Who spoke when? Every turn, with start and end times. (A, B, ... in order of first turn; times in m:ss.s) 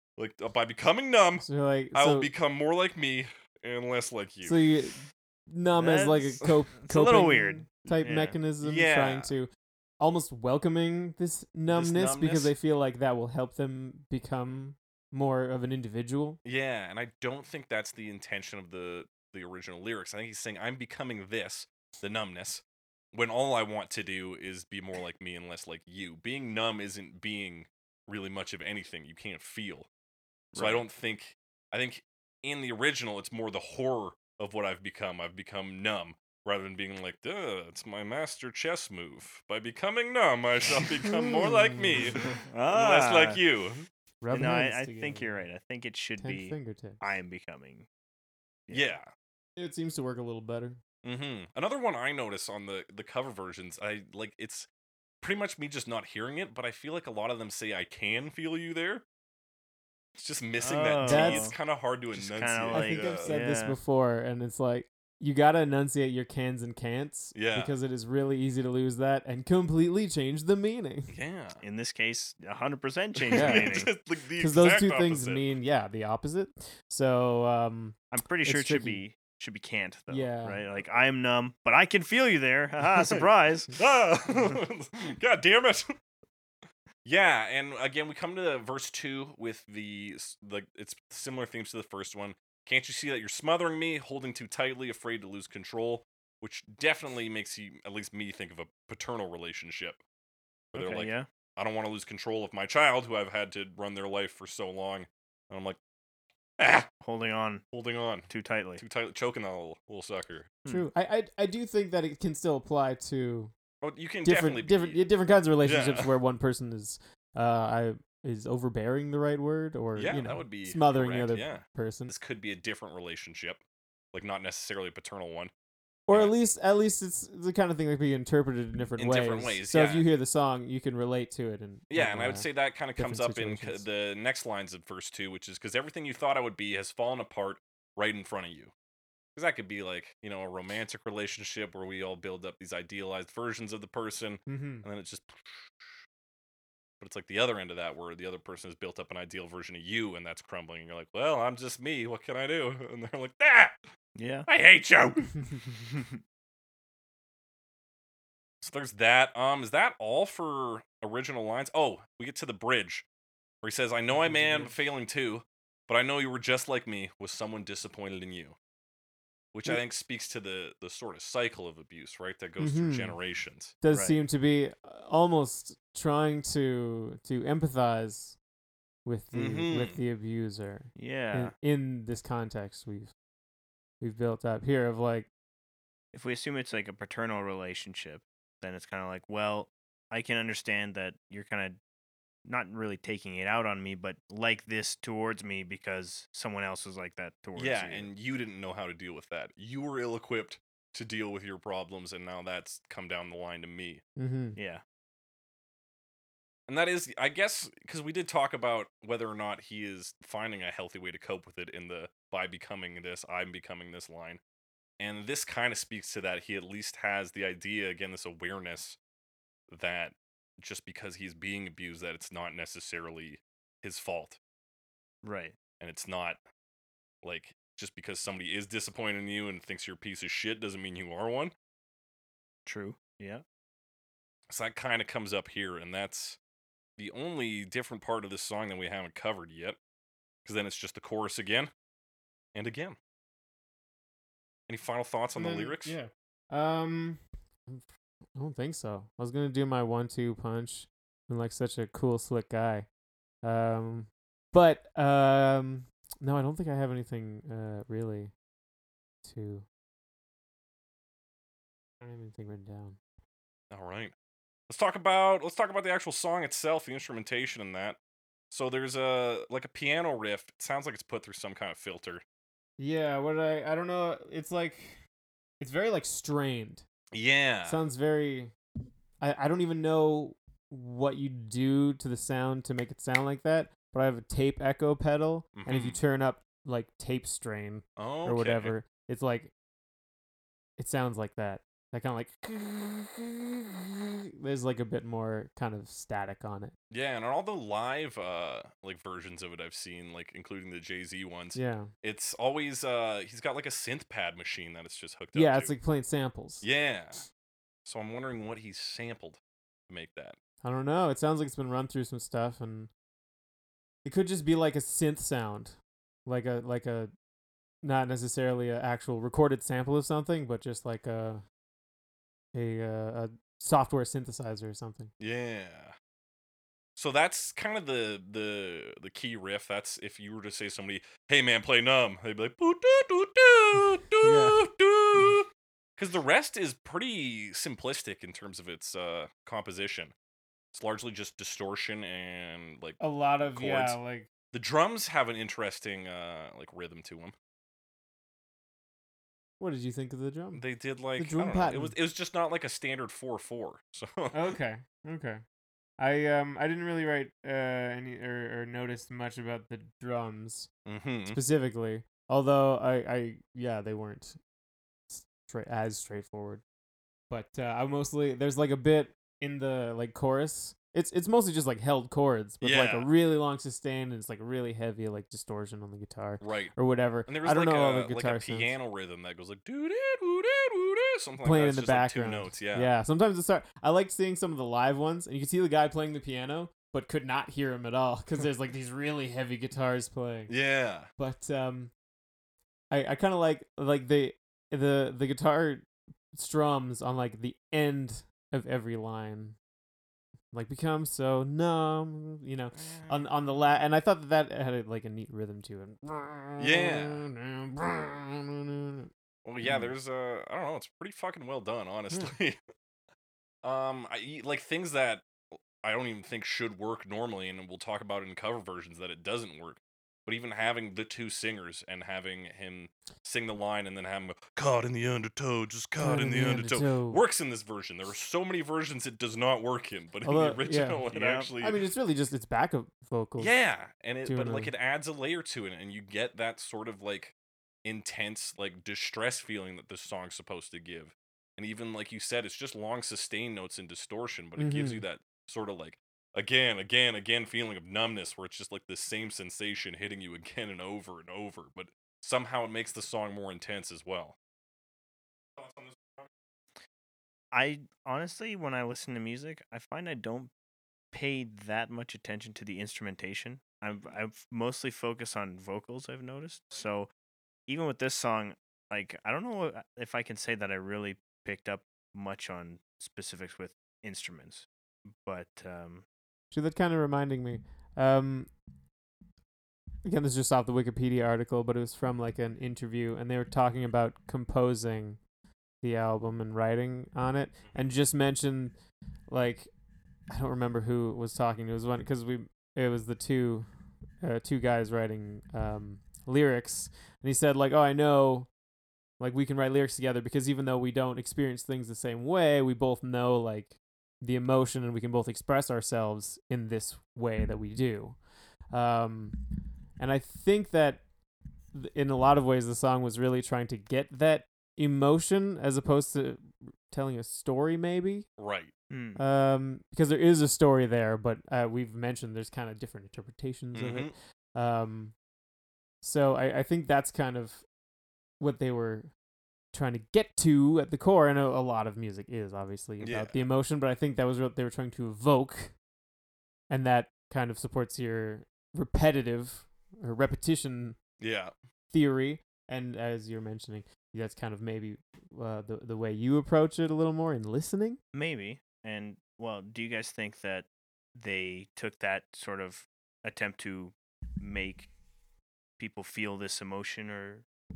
0:00.2-0:04.6 A
0:01.4-0:02.3 B
0:04.4-0:16.4 B
0:05.8-0:08.4 C
0:08.6-0:09.3 A
0:11.7-0:12.5 A
0:16.4-0:29.9 A
0:30.5-0:30.8 C
0:30.6-0:43.9 A
0:41.0-0:42.4 B
0:42.5-0:43.4 C
0:44.2-0:45.4 B
0:44.3-0:47.9 C
0:46.2-0:47.1 B
0:48.7-0:48.9 C
0:48.7-0:49.1 A
0:49.6-0:50.8 B
0:51.0-0:54.7 A
0:55.2-0:59.0 A
1:00.2-1:03.4 A
1:00.6-1:01.6 C
1:01.0-1:01.5 B
1:02.1-1:03.8 C
1:02.7-1:11.1 B
1:07.4-1:07.7 A
1:11.1-1:11.6 A
1:11.6-1:13.9 C
1:13.2-1:15.5 A
1:13.3-1:19.0 B
1:18.1-1:23.7 C
1:20.1-1:20.6 B
1:23.8-1:25.9 A
1:27.0-1:40.0 A
1:40.7-1:45.8 A
1:40.7-1:41.3 C
1:46.6-1:46.9 A
1:47.0-1:47.6 C
1:47.7-1:50.5 A
1:48.3-1:48.8 C
1:50.7-1:53.5 B
1:53.8-1:55.0 A
1:54.2-2:02.1 B
1:55.6-1:56.1 A
2:00.0-2:03.6 A
2:04.1-2:05.5 A
2:06.1-2:13.8 B
2:09.0-2:10.1 A
2:11.9-2:18.7 A
2:19.4-2:26.0 A
2:24.5-2:24.9 B
2:27.0-2:33.8 A
2:34.2-2:34.5 C
2:34.5-2:35.3 A
2:35.9-2:36.2 C
2:38.6-2:43.0 A
2:43.6-2:48.6 A
2:44.3-2:44.7 C
2:44.3-2:44.6 B
2:49.5-2:53.7 A
2:52.6-2:53.2 B
2:53.8-2:58.4 B
2:53.9-2:54.2 C
2:59.0-3:03.1 B
2:59.3-3:00.0 A
3:01.0-3:01.5 C
3:04.0-3:05.3 B
3:06.1-3:11.8 C
3:12.4-3:18.1 C
3:17.6-3:24.0 A
3:24.2-3:24.6 B
3:24.6-3:24.8 C
3:26.7-3:34.4 A
3:35.0-3:39.0 A
3:39.7-3:44.4 A
3:45.2-3:45.6 C
3:45.8-3:46.4 A
3:47.2-3:51.5 A
3:52.7-3:53.4 C
3:54.5-3:56.4 A
3:57.0-3:59.8 A
4:00.4-4:01.7 A
4:02.6-4:03.0 A
4:04.7-4:06.0 A
4:05.4-4:12.9 B
4:13.4-4:18.3 B
4:19.2-4:19.7 B
4:22.0-4:23.0 B
4:23.7-4:24.1 A
4:24.7-4:28.0 A
4:28.5-4:32.2 A
4:32.8-4:35.0 B
4:35.6-4:36.8 B
4:37.1-4:37.8 A
4:37.7-4:38.5 B
4:39.2-4:49.5 B
4:45.6-4:46.0 A
4:48.0-4:48.8 A
4:50.8-4:56.8 B
4:56.9-5:05.7 A
5:01.6-5:01.9 B
5:05.4-5:06.6 B
5:06.6-5:07.2 A
5:07.8-5:10.4 A
5:10.6-5:12.9 B
5:14.0-5:17.1 B
5:17.8-5:21.4 B
5:22.5-5:25.1 B
5:25.2-5:25.9 A
5:27.0-5:40.1 A
5:34.2-5:34.6 B
5:40.7-5:44.0 A
5:43.0-5:44.3 B
5:44.5-5:47.3 A
5:49.6-5:50.6 B
5:50.6-5:54.5 A
5:51.2-5:52.0 B
5:54.3-5:55.4 B
5:56.0-6:00.7 B
6:00.9-6:01.4 A
6:01.3-6:04.4 B
6:05.1-6:06.6 B
6:07.3-6:18.7 B
6:12.6-6:13.1 A
6:16.4-6:16.8 A
6:17.3-6:22.9 A
6:21.4-6:30.5 B
6:30.5-6:31.1 A
6:31.2-6:31.9 B
6:32.9-6:39.6 B
6:40.5-6:49.1 B
6:42.7-6:43.3 A
6:46.6-6:47.2 A
6:49.4-6:52.6 A
6:49.6-6:49.9 B
6:53.6-7:11.8 A
7:06.0-7:07.2 B
7:10.2-7:11.0 B
7:11.1-7:11.5 C
7:11.6-7:13.6 B
7:13.4-7:17.3 A
7:14.2-7:14.7 B
7:17.8-7:34.4 A
7:24.6-7:25.0 B
7:35.6-7:36.3 A
7:37.5-7:40.5 C
7:41.1-7:47.1 C
7:47.7-7:56.1 C
7:56.5-7:58.5 B
8:00.0-8:05.2 B
8:05.8-8:08.8 B
8:09.3-8:09.7 B
8:10.3-8:13.7 B
8:14.2-8:18.5 B
8:19.2-8:28.2 B
8:28.7-8:29.4 B
8:30.0-8:31.0 B
8:31.7-8:38.3 B
8:38.4-8:38.7 A
8:38.9-8:39.2 C
8:39.2-8:45.1 B
8:43.7-8:44.1 A
8:46.0-8:47.6 B
8:48.4-8:49.1 B
8:49.7-8:55.7 B
8:53.0-8:53.4 A
8:56.7-9:01.0 B
9:01.2-9:01.5 A
9:01.9-9:08.0 B
9:08.1-9:14.9 C
9:15.8-9:17.5 C